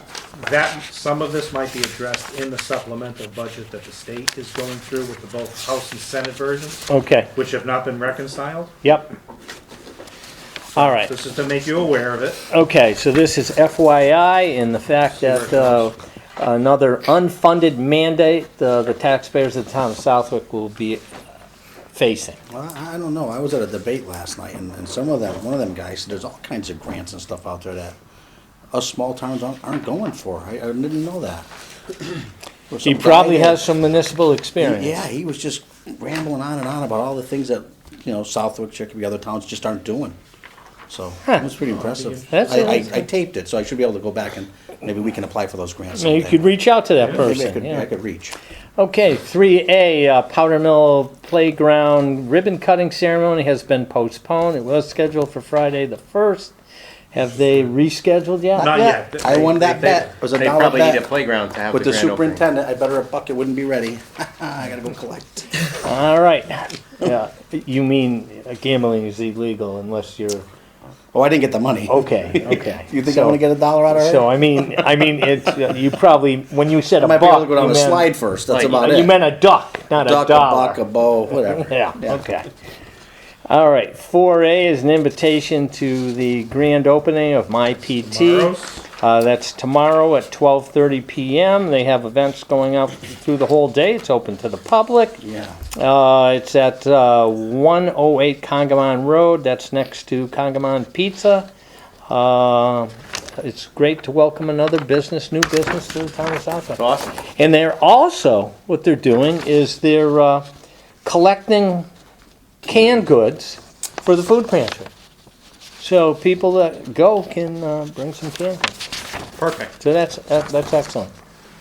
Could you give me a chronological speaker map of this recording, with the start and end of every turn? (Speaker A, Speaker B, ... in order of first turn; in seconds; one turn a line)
Speaker A: 0.3-8.8
Speaker B: 6.9-7.3
Speaker B: 8.8-9.1
Speaker A: 10.7-12.5
Speaker B: 10.8-11.1
Speaker B: 12.5-21.0
Speaker A: 15.2-15.9
Speaker B: 21.9-22.4
Speaker C: 22.5-28.0
Speaker C: 28.7-31.5
Speaker C: 32.7-33.6
Speaker B: 32.8-35.0
Speaker C: 34.6-40.2
Speaker C: 40.9-46.5
Speaker A: 41.6-42.9
Speaker B: 42.3-43.0
Speaker B: 45.9-47.9
Speaker C: 47.1-48.4
Speaker B: 48.8-56.5
Speaker B: 57.1-59.0
Speaker A: 58.6-60.1
Speaker C: 58.6-61.1
Speaker D: 60.3-62.4
Speaker C: 61.7-65.6
Speaker B: 65.8-70.5
Speaker C: 71.1-74.8
Speaker B: 71.9-78.1
Speaker C: 77.0-79.2
Speaker D: 78.5-78.9
Speaker B: 78.6-80.8
Speaker C: 80.0-82.2
Speaker B: 81.5-82.5
Speaker B: 83.5-101.5
Speaker A: 88.0-88.8
Speaker C: 95.2-95.6
Speaker B: 102.1-110.5
Speaker D: 106.8-107.1
Speaker B: 111.0-111.9
Speaker B: 112.6-114.9
Speaker B: 115.8-118.7
Speaker D: 119.4-119.8
Speaker B: 119.8-121.1